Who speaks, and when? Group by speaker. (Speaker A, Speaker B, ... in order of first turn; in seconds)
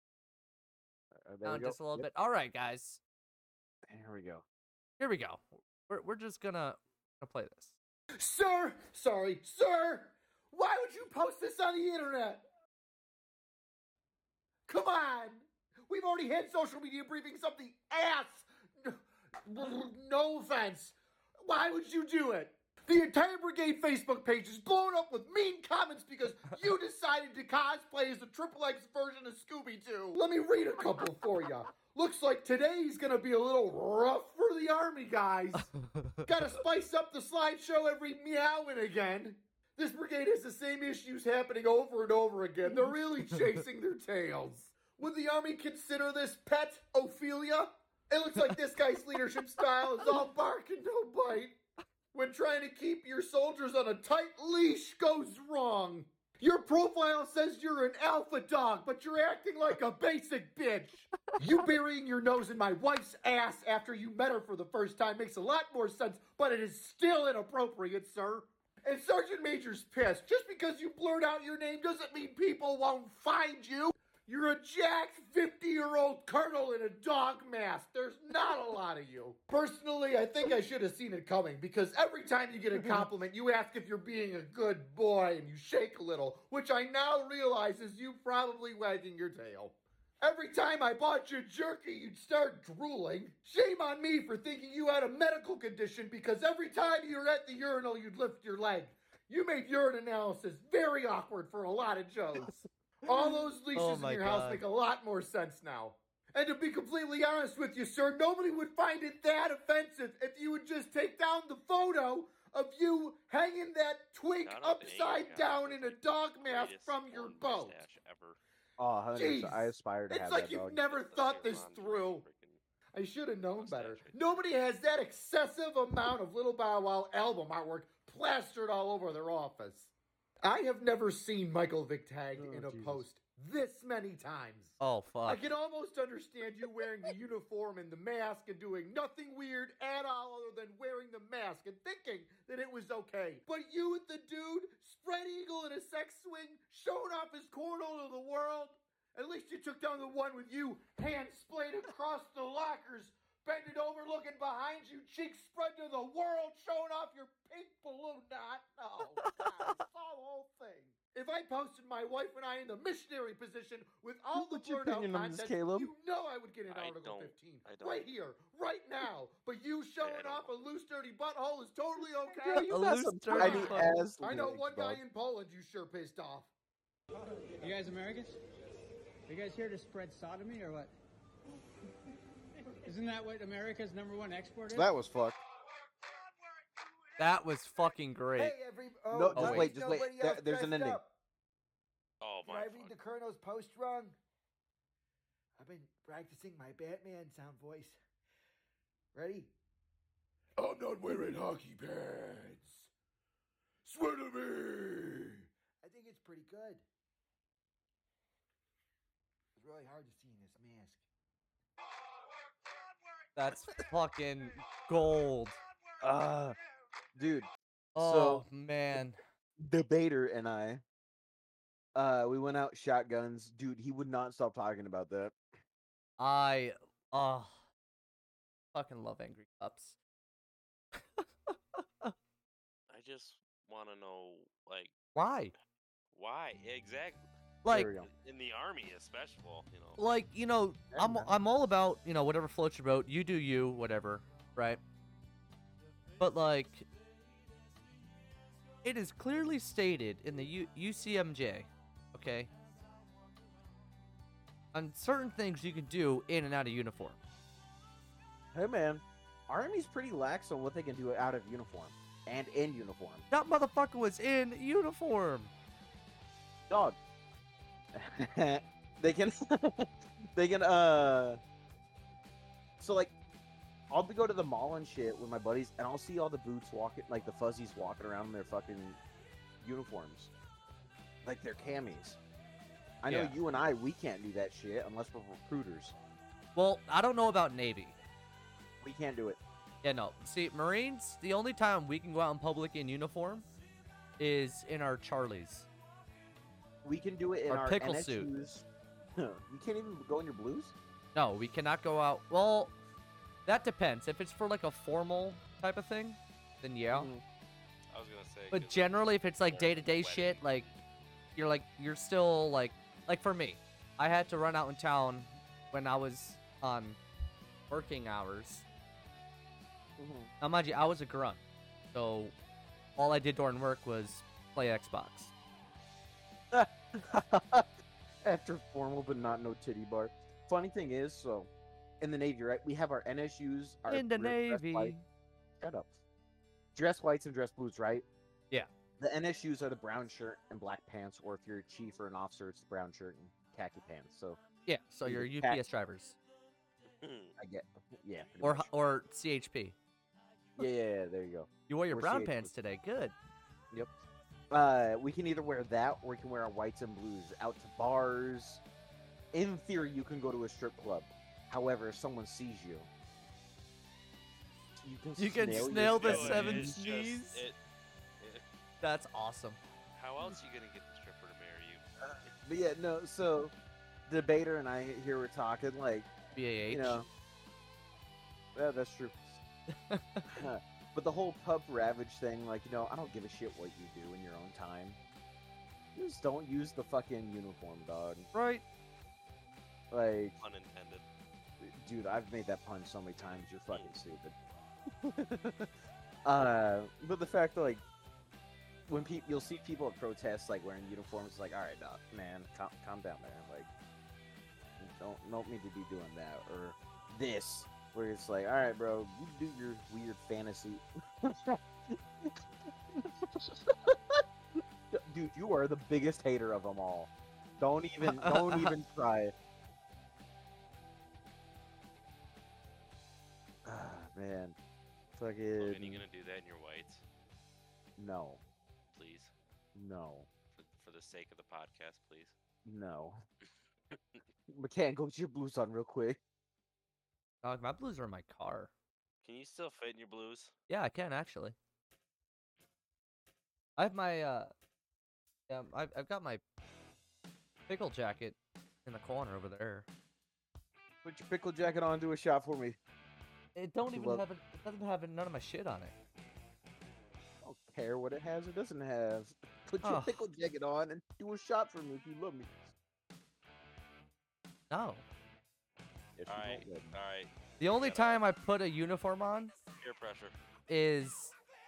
Speaker A: 1.1-2.1, 3.9-4.4, 82.7-83.1, 118.8-120.8, 132.3-133.1, 164.3-165.9, 172.3-175.0, 184.7-185.4, 189.1-191.0, 216.0-216.6, 217.1-218.4, 219.6-220.8, 221.9-225.3, 237.7-238.1, 240.9-241.3, 258.5-263.2, 266.7-267.0, 267.9-271.4, 272.8-273.1, 273.9-279.0, 279.6-280.3, 281.2-282.2, 283.0-285.9, 288.8-289.4, 296.8-300.7, 306.9-307.2, 320.0-320.3, 326.5-327.7, 328.2-331.5, 332.0-334.9, 335.6-335.9, 336.7-338.0, 339.0-344.4, 345.0-345.6, 347.4-348.7, 350.6-352.5, 354.5-358.6, 359.3-362.9, 364.8-366.7, 372.0-373.5, 374.1-376.1, 376.7-377.1, 378.5-379.4, 380.3-385.0, 385.9-388.3, 389.9-390.4, 391.6-394.3, 394.9-395.7, 396.2-397.8, 398.9-403.7, 404.8-419.3, 423.6-424.6, 425.1-426.0, 428.0-428.4, 429.7-430.3, 432.6-433.2, 434.5-436.2, 451.0-452.8, 453.9-454.2, 457.4-462.6, 466.1-466.9
Speaker B: 1.4-3.0, 5.0-7.7, 35.6-36.3, 103.7-104.6, 134.8-135.5, 172.7-173.9, 187.2-188.5, 189.3-189.7, 213.3-215.6, 217.9-219.2, 226.2-227.6, 228.7-229.9, 231.0-232.1, 235.1-235.5, 237.6-237.9, 240.0-244.8, 246.2-246.9, 248.8-252.5, 254.7-257.2, 263.3-265.5, 283.1-283.4, 286.5-288.0, 289.8-293.5, 294.2-295.7, 297.5-298.3, 301.1-302.8, 303.4-307.1, 308.5-310.7, 311.4-317.0, 317.7-318.6, 320.4-321.4, 321.9-322.3, 323.0-325.3, 333.9-335.0, 344.6-346.2, 348.4-349.7, 351.7-353.1, 365.2-367.4, 368.8-369.6, 376.3-377.0, 379.9-380.4, 388.3-388.6, 418.0-418.7, 437.4-438.7, 440.7-441.6, 443.8-444.5, 445.5-446.4, 447.7-449.9, 453.5-455.9, 459.8-460.2, 464.7-465.0, 467.6-469.5, 470.7-471.3
Speaker C: 8.2-12.4, 14.7-35.7, 36.2-51.6, 52.1-117.8, 119.1-122.2, 122.9-129.9, 130.4-172.7, 173.3-176.5, 188.3-191.1, 192.4-194.2, 195.6-198.0, 199.1-199.5, 200.6-202.9, 203.8-206.8, 209.6-211.0
Speaker D: 114.4-118.4, 120.9-122.6, 123.6-124.4, 166.7-168.1, 170.0-170.5, 192.2-192.9, 232.9-234.9, 236.1-237.2, 238.1-240.0, 307.9-310.8, 346.9-347.3, 365.5-367.6, 369.9-372.3, 390.4-391.0, 425.6-427.0, 428.9-429.3, 430.5-432.3, 439.2-440.5, 466.3-468.2, 469.8-470.4
Speaker E: 177.6-178.3, 179.3-180.9, 182.8-184.9